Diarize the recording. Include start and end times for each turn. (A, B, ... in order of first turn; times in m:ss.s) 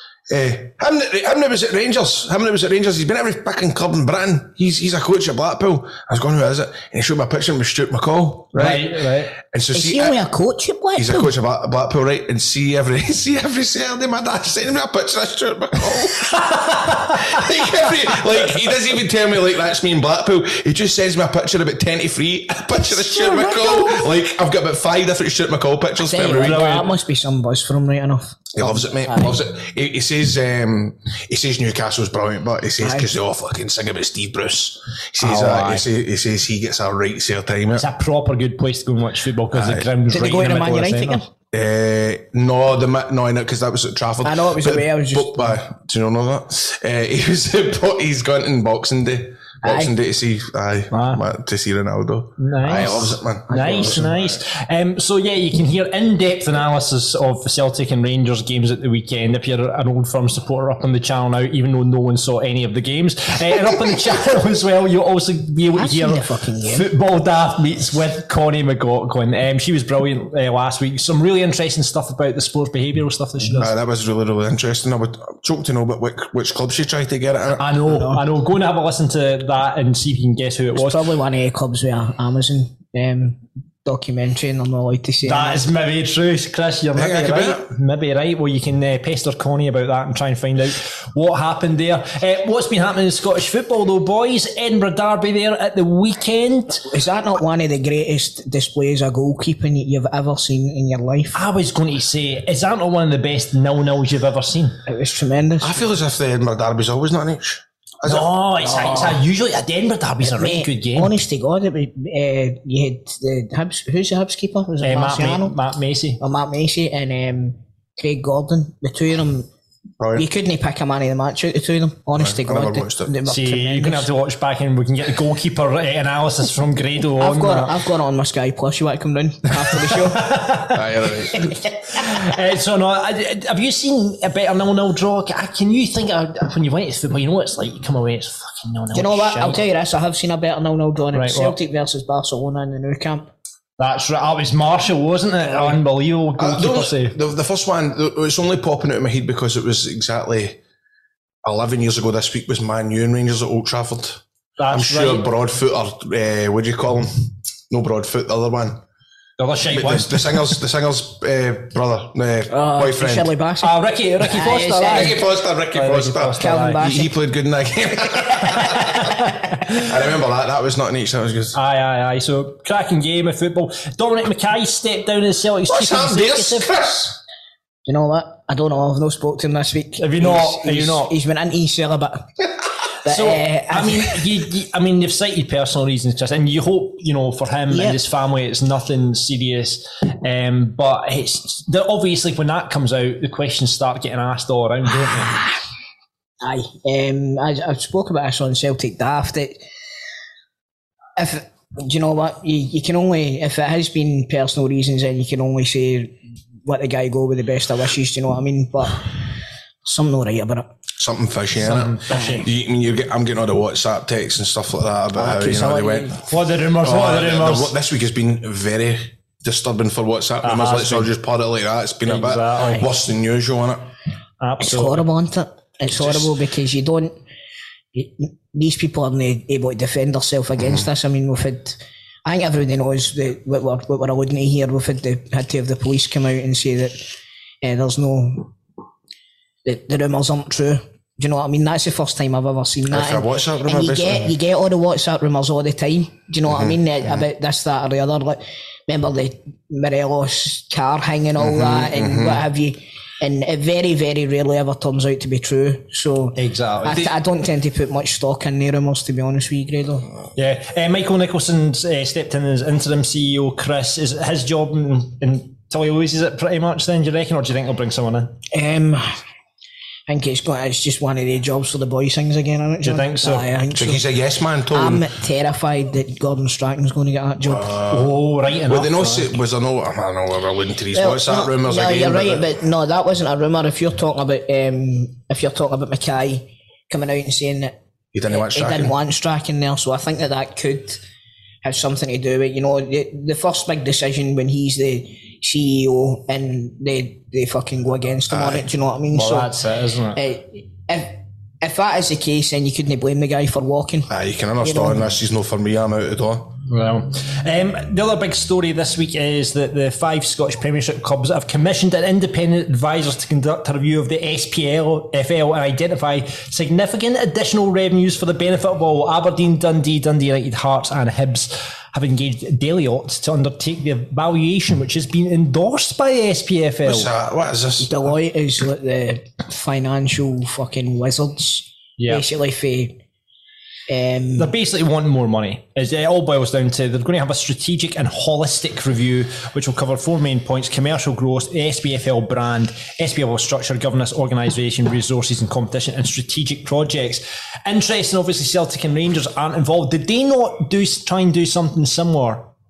0:00.3-0:10.2 A
0:08.5-0:09.3 B
0:09.7-0:11.3 C
0:11.0-0:16.5 A
0:16.3-0:17.3 B
0:17.1-0:26.7 A
0:23.1-0:24.0 C
0:26.0-0:29.4 C
0:26.4-0:26.9 B
0:28.5-0:37.9 A
0:32.8-0:33.1 C
0:35.2-0:35.9 B
0:37.8-0:41.2 B
0:39.5-0:39.9 A
0:40.1-0:41.3 C
0:41.5-0:54.4 A
0:44.2-0:45.6 C
0:49.6-0:49.9 C
0:50.9-0:51.2 B
0:52.4-1:13.7 B
0:53.5-0:54.1 C
1:05.7-1:06.9 C
1:13.6-1:18.1 A
1:17.6-1:21.0 B
1:20.8-1:25.6 C
1:25.2-1:36.8 B
1:26.9-1:27.7 A
1:36.9-1:41.4 C
1:41.3-1:44.8 B
1:44.9-1:45.8 C
1:45.6-1:48.4 A
1:48.1-1:51.2 B
1:48.6-1:49.2 C
1:50.2-1:55.6 C
1:54.8-1:56.2 B
1:56.2-1:59.5 C
2:00.0-2:00.3 A
2:00.2-2:04.1 C
2:02.2-2:03.2 A
2:03.3-2:07.7 B
2:07.2-2:10.2 C
2:09.8-2:10.8 B
2:10.7-2:11.5 A
2:11.9-2:19.6 B
2:18.9-2:23.3 C
2:21.1-2:21.6 B
2:23.8-2:27.2 B
2:26.4-2:30.6 A
2:31.4-2:38.8 A
2:34.6-2:35.3 B
2:39.4-2:40.4 B
2:39.7-2:43.3 A
2:42.5-2:45.2 C
2:43.6-2:46.8 B
2:44.9-2:49.0 A
2:46.4-2:47.1 C
2:48.4-2:49.9 B
2:49.8-2:51.6 A
2:51.5-2:56.9 B
2:55.7-2:57.2 A
2:57.9-3:02.3 C
3:00.0-3:01.1 B
3:03.0-3:04.2 C
3:03.1-3:15.4 B
3:07.7-3:08.0 C
3:16.4-3:19.6 C
3:21.2-3:29.1 C
3:29.8-3:30.7 C
3:31.0-3:36.2 A
3:31.6-3:32.5 B
3:32.1-3:32.4 C
3:35.2-3:36.2 C
3:36.2-3:37.7 B
3:36.8-3:43.9 A
3:40.4-3:41.1 B
3:42.0-3:42.9 B
3:44.4-3:45.0 B
3:44.6-3:47.1 C
3:46.0-3:46.3 A
3:47.9-3:57.0 C
3:50.6-3:50.8 A
3:57.6-3:58.5 C
3:59.6-4:20.1 C
4:02.9-4:04.4 A
4:06.5-4:06.8 A
4:11.4-4:12.4 A
4:16.4-4:17.1 B
4:20.4-4:28.4 B
4:28.5-4:29.1 C
4:30.1-4:34.0 C
4:32.8-4:33.5 B
4:33.7-4:35.1 A
4:34.7-4:37.8 C
4:37.4-4:42.5 A
4:37.9-4:39.4 B
4:40.9-4:47.8 C
4:48.1-4:49.0 A
4:48.3-4:51.0 C
4:51.6-4:59.5 C
4:58.3-4:58.7 A
4:59.1-5:00.2 B
5:00.2-5:04.1 C
5:04.1-5:06.6 A
5:04.6-5:05.1 C
5:06.7-5:27.1 B
5:26.8-5:28.1 A
5:27.8-5:33.0 C
5:32.0-5:32.3 B
5:33.9-5:34.5 C
5:34.4-5:52.5 B